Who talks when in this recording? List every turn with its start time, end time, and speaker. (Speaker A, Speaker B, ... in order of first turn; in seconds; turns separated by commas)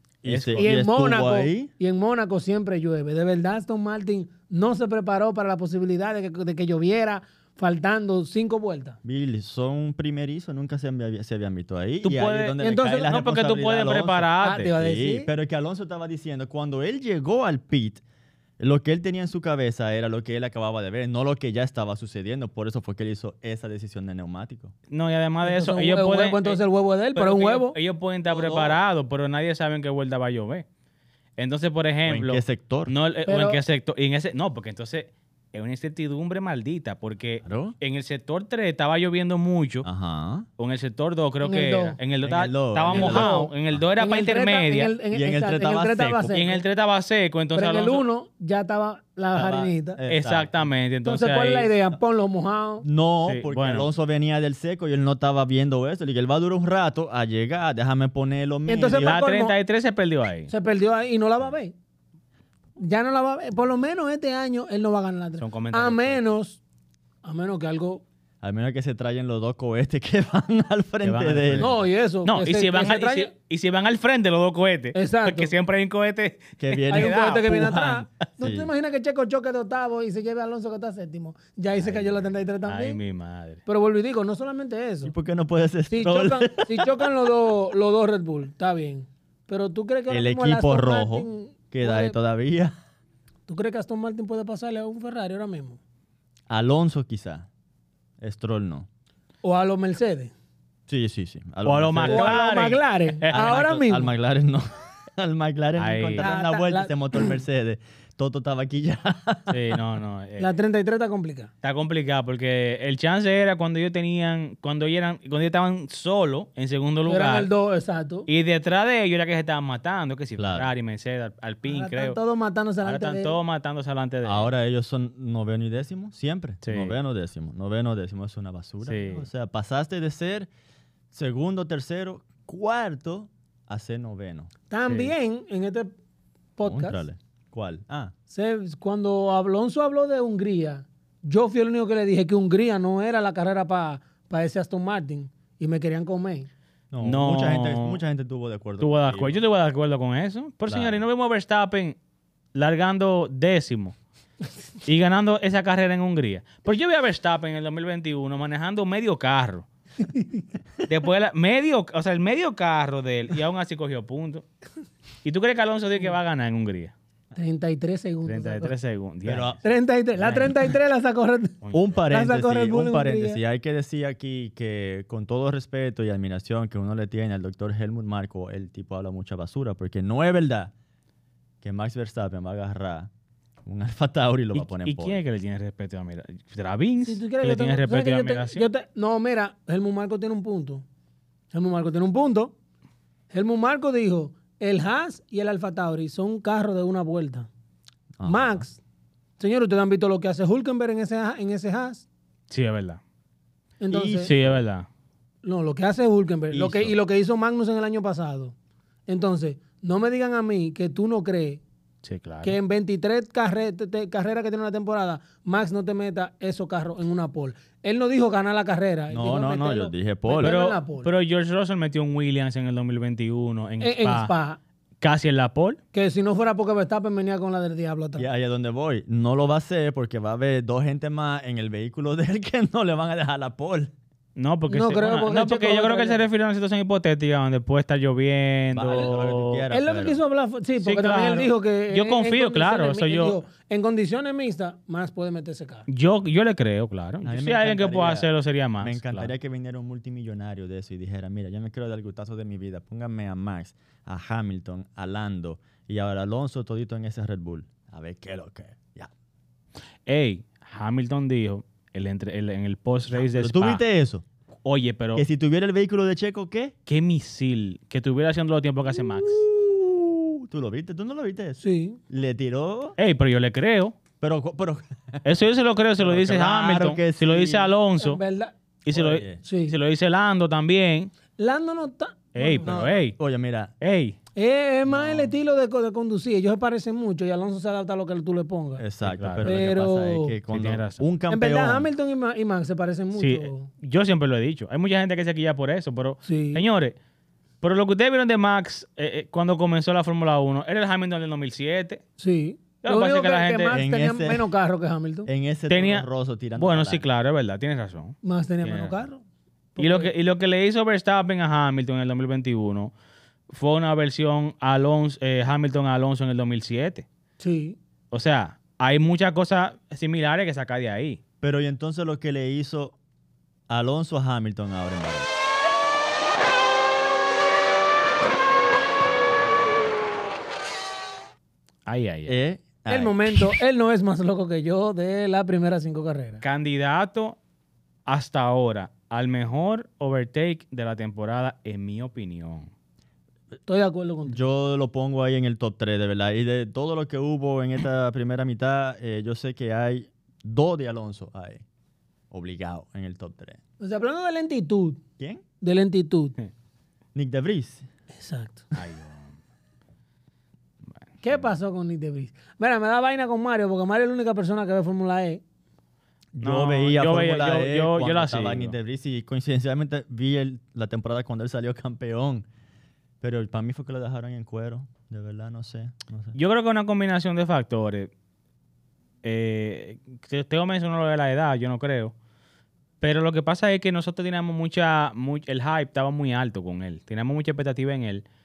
Speaker A: 0.2-1.7, Speaker B: 0.2-0.7, Speaker C: 0.6-9.0, Speaker A: 9.0-18.0, Speaker B: 12.0-14.7, Speaker C: 12.6-13.1, Speaker C: 14.4-15.3, Speaker A: 18.6-24.7, Speaker B: 24.9-26.6, Speaker C: 25.4-27.8, Speaker B: 27.1-30.6, Speaker A: 28.3-28.8, Speaker B: 31.4-39.9, Speaker A: 32.0-32.9, Speaker C: 33.2-33.6, Speaker A: 37.4-37.8, Speaker A: 39.8-40.5, Speaker B: 40.6-44.9, Speaker C: 41.4-42.0, Speaker A: 42.2-43.8, Speaker C: 42.9-46.6, Speaker A: 45.1-46.4, Speaker B: 46.3-48.0, Speaker C: 47.5-50.0, Speaker A: 49.3-50.6, Speaker B: 50.1-51.7, Speaker C: 51.0-52.8, Speaker A: 52.8-59.2, Speaker B: 53.2-53.9, Speaker C: 58.7-59.5, Speaker B: 59.0-60.5, Speaker C: 60.5-61.7, Speaker C: 62.8-66.6, Speaker B: 65.4-66.2, Speaker C: 67.2-68.0, Speaker A: 68.4-71.7, Speaker B: 71.0-77.5, Speaker C: 71.5-73.3, Speaker C: 74.9-75.5, Speaker A: 76.6-78.7, Speaker C: 76.9-83.0, Speaker A: 81.8-82.2, Speaker B: 82.7-83.6, Speaker C: 83.7-85.1, Speaker A: 85.0-87.3, Speaker C: 85.9-92.2, Speaker A: 90.1-92.7, Speaker C: 93.5-95.8, Speaker A: 96.5-97.5, Speaker A: 98.2-98.9, Speaker C: 99.4-100.3, Speaker A: 100.9-102.4, Speaker B: 101.6-103.5, Speaker C: 102.0-104.1, Speaker A: 103.3-109.8, Speaker B: 105.8-106.3, Speaker C: 106.2-107.3, Speaker B: 109.5-110.5, Speaker C: 110.4-111.5, Speaker B: 111.6-117.5, Speaker C: 117.1-118.3, Speaker B: 118.3-122.2, Speaker A: 120.4-120.7, Speaker C: 121.7-123.4, Speaker B: 122.8-124.5, Speaker A: 124.2-130.5, Speaker B: 126.6-126.9, Speaker B: 128.8-129.2, Speaker A: 131.1-134.5, Speaker C: 134.7-135.9, Speaker B: 134.8-135.1, Speaker C: 136.6-137.0, Speaker A: 136.6-138.1, Speaker C: 138.3-146.5, Speaker A: 146.9-149.4, Speaker B: 147.0-148.0, Speaker B: 148.8-152.0, Speaker A: 150.7-151.0, Speaker B: 152.5-153.9, Speaker B: 154.8-159.7, Speaker C: 160.0-160.4, Speaker B: 160.9-164.4, Speaker B: 165.2-166.9, Speaker C: 167.3-168.7, Speaker B: 168.2-169.6, Speaker A: 169.2-169.6, Speaker C: 169.6-171.6, Speaker B: 170.2-170.5, Speaker A: 171.7-180.7, Speaker C: 172.1-173.4, Speaker A: 181.6-183.1, Speaker A: 183.6-185.2, Speaker B: 184.5-188.7, Speaker C: 187.1-190.8, Speaker C: 191.5-192.5, Speaker C: 193.3-197.5, Speaker A: 198.2-198.6, Speaker C: 198.2-198.8, Speaker C: 199.4-202.1, Speaker B: 202.5-203.0, Speaker C: 203.8-204.3, Speaker A: 203.9-204.6, Speaker B: 204.2-204.9, Speaker C: 205.4-208.5, Speaker A: 206.5-206.9, Speaker C: 209.1-211.6, Speaker B: 212.0-212.6, Speaker C: 212.4-221.1, Speaker A: 219.1-220.6, Speaker B: 220.4-224.3, Speaker C: 223.8-224.6, Speaker B: 225.0-225.8, Speaker C: 225.9-228.2, Speaker A: 228.2-233.9, Speaker B: 234.3-239.6, Speaker C: 234.7-236.2, Speaker A: 238.7-240.2, Speaker C: 239.7-245.8, Speaker B: 240.8-243.4, Speaker B: 245.9-249.3, Speaker A: 247.2-248.3, Speaker A: 248.8-259.1, Speaker B: 260.1-263.8, Speaker A: 263.1-264.2, Speaker B: 264.6-265.2, Speaker A: 265.1-266.7, Speaker B: 266.9-269.4, Speaker A: 268.9-273.0, Speaker C: 271.6-272.0, Speaker B: 273.0-273.9, Speaker A: 274.2-275.4, Speaker B: 275.2-278.2, Speaker A: 276.0-277.7, Speaker C: 278.0-278.5, Speaker B: 278.8-281.1, Speaker A: 278.9-279.4, Speaker C: 279.4-279.8, Speaker C: 281.4-282.8, Speaker B: 282.3-283.2, Speaker A: 282.6-283.7, Speaker B: 283.8-284.2, Speaker C: 284.4-288.8, Speaker A: 284.9-285.3, Speaker A: 288.8-291.9, Speaker B: 289.0-289.5, Speaker C: 289.4-290.3, Speaker B: 290.5-291.0, Speaker C: 291.3-293.7, Speaker B: 293.1-296.9, Speaker C: 296.2-296.6, Speaker B: 297.6-302.0, Speaker C: 302.2-305.3, Speaker B: 302.8-303.8, Speaker A: 303.7-304.5, Speaker A: 305.2-307.0, Speaker B: 305.7-306.1, Speaker B: 306.6-309.0, Speaker C: 308.2-309.2, Speaker C: 309.8-310.1, Speaker B: 309.8-312.9, Speaker B: 313.5-317.0, Speaker C: 317.4-317.8, Speaker B: 318.1-321.2, Speaker A: 321.4-322.9, Speaker A: 323.7-325.3, Speaker B: 331.9-332.4, Speaker A: 332.3-333.5, Speaker C: 332.9-336.4, Speaker B: 336.4-337.4, Speaker B: 338.1-342.7, Speaker C: 343.7-344.4, Speaker A: 344.3-351.6, Speaker A: 352.3-353.6, Speaker C: 353.8-355.0, Speaker C: 355.6-356.3, Speaker A: 357.1-357.9, Speaker C: 358.1-358.7, Speaker B: 358.7-359.3, Speaker C: 361.2-365.4, Speaker A: 366.3-372.5, Speaker B: 366.4-368.7, Speaker A: 373.2-376.3, Speaker B: 376.3-378.1, Speaker B: 379.2-382.1, Speaker B: 383.0-388.2